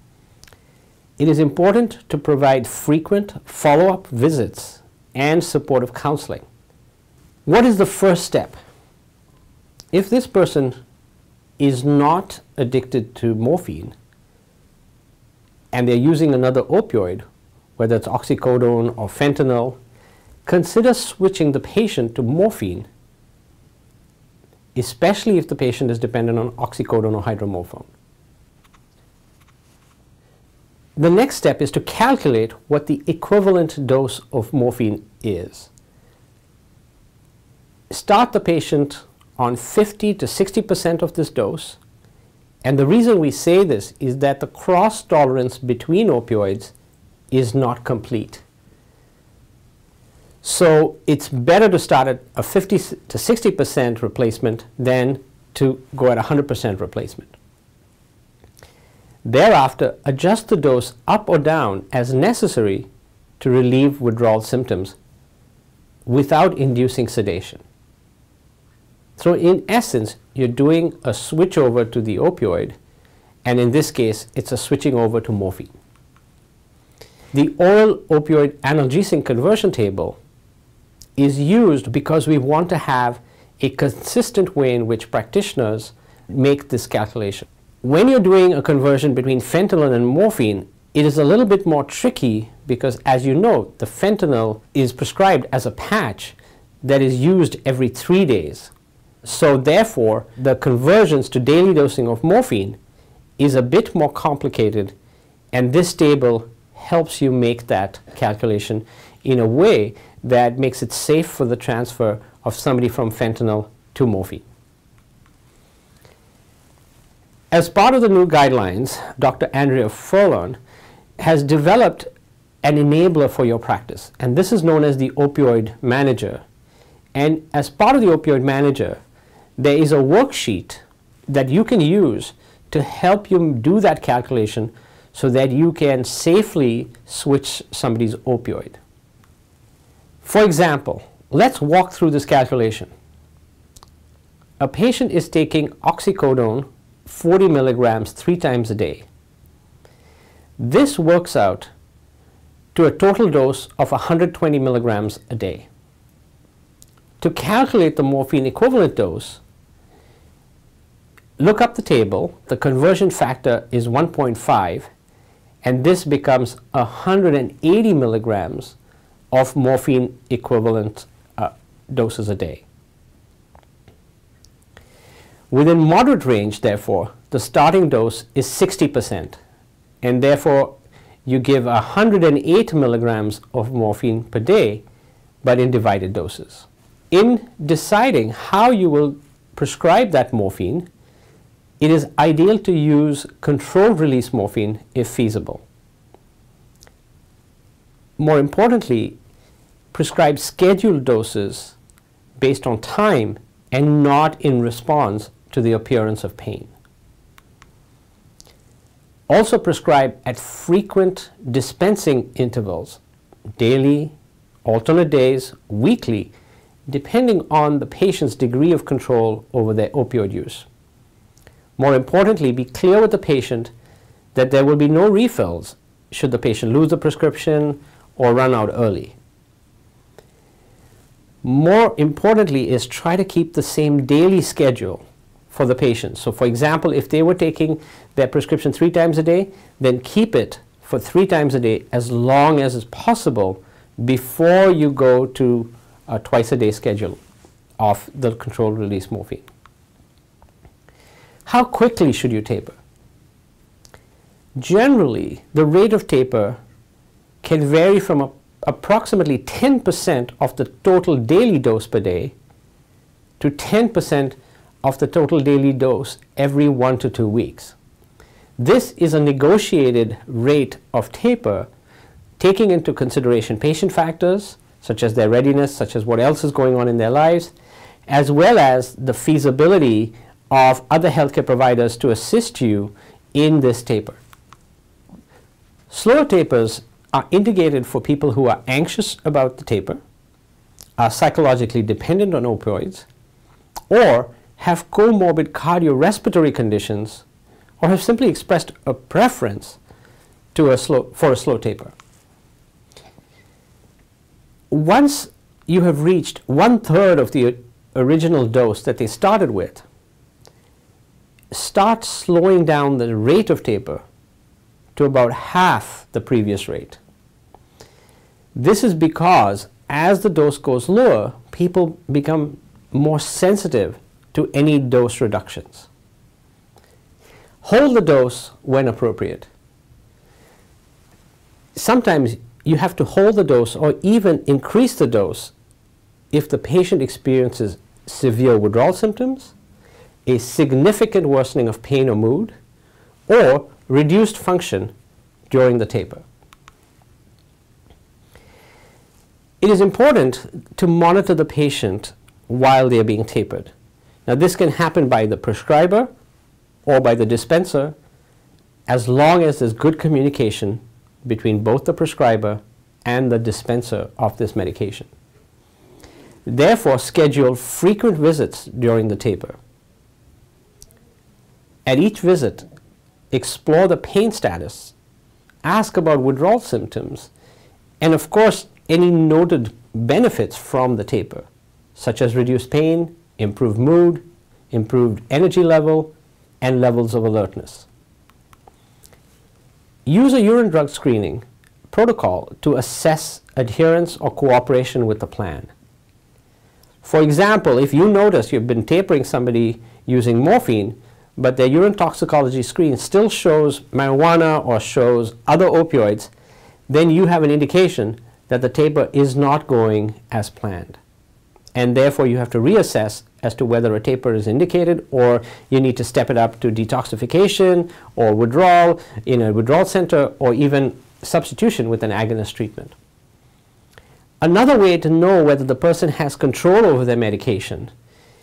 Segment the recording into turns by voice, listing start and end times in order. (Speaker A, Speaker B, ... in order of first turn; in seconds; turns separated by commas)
Speaker A: 1.2-6.5, Speaker A: 7.5-8.6, Speaker A: 9.9-10.8, Speaker A: 11.6-13.9, Speaker A: 15.7-17.2, Speaker A: 17.8-19.8, Speaker A: 20.4-22.9, Speaker A: 24.7-27.9, Speaker A: 31.0-35.7, Speaker A: 37.9-41.8, Speaker A: 42.6-46.7, Speaker A: 47.3-48.4, Speaker A: 50.4-57.3, Speaker A: 59.2-62.9, Speaker A: 63.4-65.0, Speaker A: 66.0-67.6, Speaker A: 69.2-72.8, Speaker A: 73.4-75.7, Speaker A: 77.3-80.2, Speaker A: 81.2-98.7, Speaker A: 99.2-102.8, Speaker A: 103.4-104.9, Speaker A: 105.5-114.4, Speaker A: 117.5-120.6, Speaker A: 121.2-122.1, Speaker A: 122.6-126.4, Speaker A: 127.1-129.0, Speaker A: 129.6-138.8, Speaker A: 140.2-142.9, Speaker A: 144.6-149.1, Speaker A: 150.6-151.7, Speaker A: 152.7-155.7, Speaker A: 157.2-159.4, Speaker A: 161.4-164.9, Speaker A: 165.6-168.8, Speaker A: 169.3-172.6, Speaker A: 175.5-179.4, Speaker A: 180.0-180.7, Speaker A: 181.2-184.8, Speaker A: 185.4-190.9, Speaker A: 191.8-195.6, Speaker A: 198.2-199.2, Speaker A: 199.9-201.8, Speaker A: 202.4-206.7, Speaker A: 209.3-213.0, Speaker A: 213.6-216.3, Speaker A: 216.9-220.7, Speaker A: 221.8-223.7, Speaker A: 224.3-229.2, Speaker A: 231.4-247.2, Speaker A: 247.8-249.5, Speaker A: 251.4-252.8, Speaker A: 254.6-256.6, Speaker A: 257.4-262.3, Speaker A: 263.4-267.7, Speaker A: 268.6-271.7, Speaker A: 272.4-277.5, Speaker A: 278.1-284.2, Speaker A: 285.9-290.0, Speaker A: 291.0-293.1, Speaker A: 293.9-297.2, Speaker A: 297.8-299.8, Speaker A: 300.5-301.9, Speaker A: 304.7-309.8, Speaker A: 311.5-314.0, Speaker A: 314.9-317.0, Speaker A: 318.5-325.9, Speaker A: 327.6-329.5, Speaker A: 331.7-335.5, Speaker A: 336.3-339.5, Speaker A: 340.2-342.5, Speaker A: 343.3-344.9, Speaker A: 345.5-346.2, Speaker A: 349.6-353.7, Speaker A: 354.2-356.1, Speaker A: 356.9-357.9, Speaker A: 358.9-365.1, Speaker A: 366.4-369.6, Speaker A: 371.9-372.6, Speaker A: 373.3-374.9, Speaker A: 375.6-377.3, Speaker A: 378.0-387.9, Speaker A: 390.1-395.7, Speaker A: 397.0-406.3, Speaker A: 406.9-411.0, Speaker A: 411.7-422.9, Speaker A: 424.4-427.9